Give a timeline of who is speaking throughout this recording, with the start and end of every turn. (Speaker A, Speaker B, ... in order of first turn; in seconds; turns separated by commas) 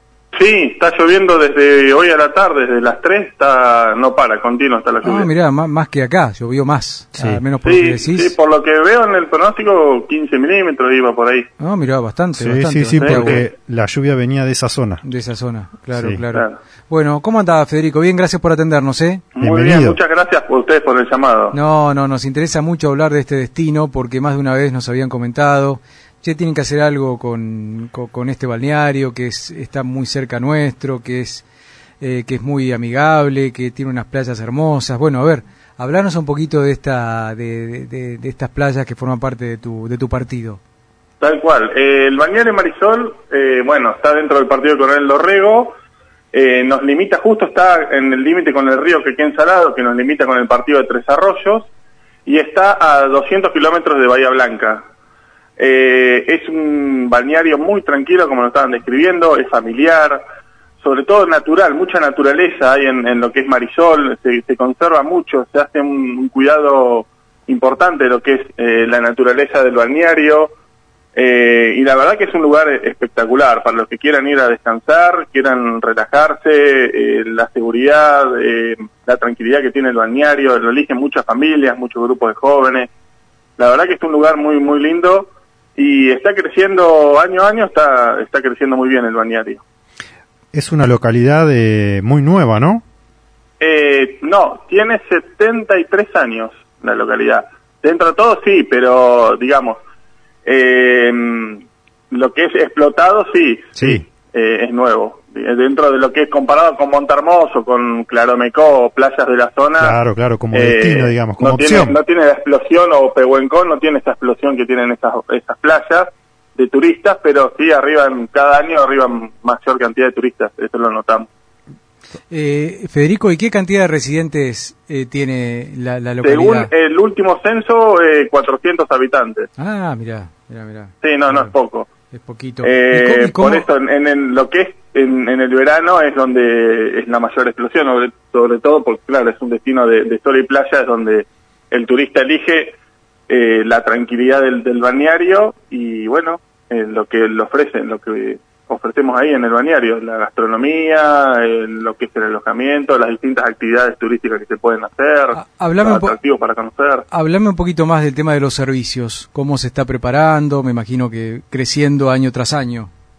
Speaker A: 0.3-5.3, Speaker B: 5.0-8.3, Speaker C: 7.1-7.4, Speaker A: 7.6-11.5, Speaker B: 11.6-13.4, Speaker C: 12.3-15.0, Speaker A: 13.0-13.4, Speaker B: 15.0-19.2, Speaker C: 15.9-16.2, Speaker A: 19.4-21.5, Speaker C: 19.4-20.0, Speaker B: 21.5-31.4, Speaker B: 32.0-40.6, Speaker A: 41.2-45.7, Speaker A: 46.3-51.7, Speaker A: 52.2-54.8, Speaker A: 55.6-60.2, Speaker A: 60.8-70.5, Speaker A: 71.2-82.9, Speaker A: 83.6-89.6, Speaker C: 90.5-92.8, Speaker A: 93.6-99.8, Speaker A: 100.4-110.0, Speaker C: 103.8-104.0, Speaker C: 109.8-112.0, Speaker A: 110.5-121.3, Speaker B: 122.3-126.7, Speaker A: 126.2-129.5, Speaker B: 129.6-131.5, Speaker A: 131.0-131.9, Speaker B: 132.1-133.7, Speaker A: 132.6-142.7, Speaker A: 143.3-157.0, Speaker B: 155.3-156.2, Speaker B: 157.1-162.9